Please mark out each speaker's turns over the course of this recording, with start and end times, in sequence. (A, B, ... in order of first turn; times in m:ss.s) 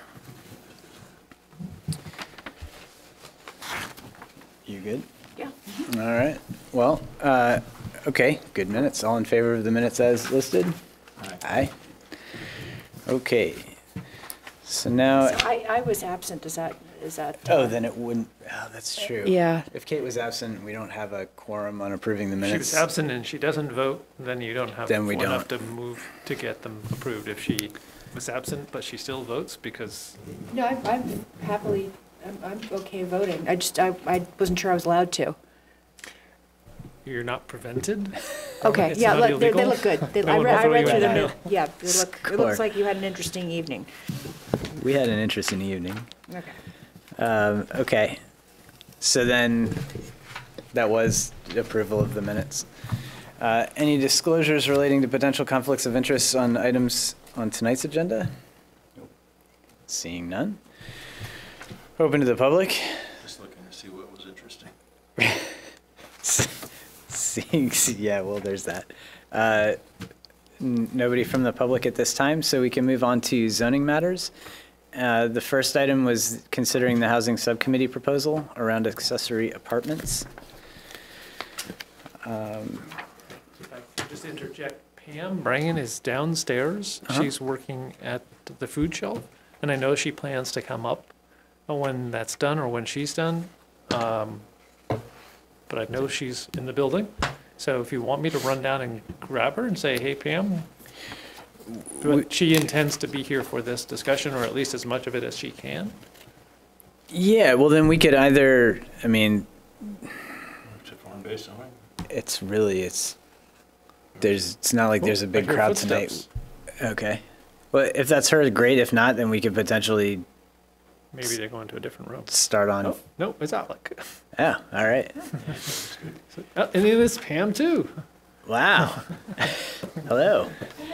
0:04.7-0:05.1 A
0:05.4-0:05.7 B
0:05.8-0:10.8 A
0:11.4-0:11.7 A
0:13.0-0:13.8 A
0:14.6-0:15.4 A
0:15.2-0:17.8 B
0:17.4-0:22.8 A
0:19.2-0:19.7 B
0:22.4-0:30.2 C
0:24.9-0:25.5 A
0:30.5-0:35.4 B
0:37.0-0:41.5 C
0:38.6-0:43.9 B
0:40.3-0:41.3 A
0:41.9-0:42.6 A
0:44.7-0:46.1 A
0:46.3-0:46.5 B
0:47.2-0:48.2 A
0:49.0-0:49.9 A
0:50.7-0:52.7 A
0:53.4-0:58.3 A
0:59.9-1:00.6 A
1:02.0-1:03.0 A
1:03.2-1:04.7 D
1:05.2-1:05.5 A
1:06.2-1:09.8 A
1:10.6-1:14.3 A
1:14.9-1:20.2 A
1:22.2-1:22.9 A
1:23.6-1:31.1 C
1:27.0-1:27.3 A
1:31.7-1:34.4 C
1:35.7-1:40.7 C
1:42.0-1:46.0 C
1:47.1-1:50.0 A
1:50.7-1:51.8 D
1:52.1-1:53.2 A
1:54.2-1:56.2 A
1:55.0-1:56.2 C
1:56.8-2:00.2 A
2:01.1-2:04.1 C
2:02.3-2:03.0 A
2:04.3-2:05.3 A
2:05.6-2:06.1 D
2:06.3-2:08.0 C
2:08.4-2:10.6 A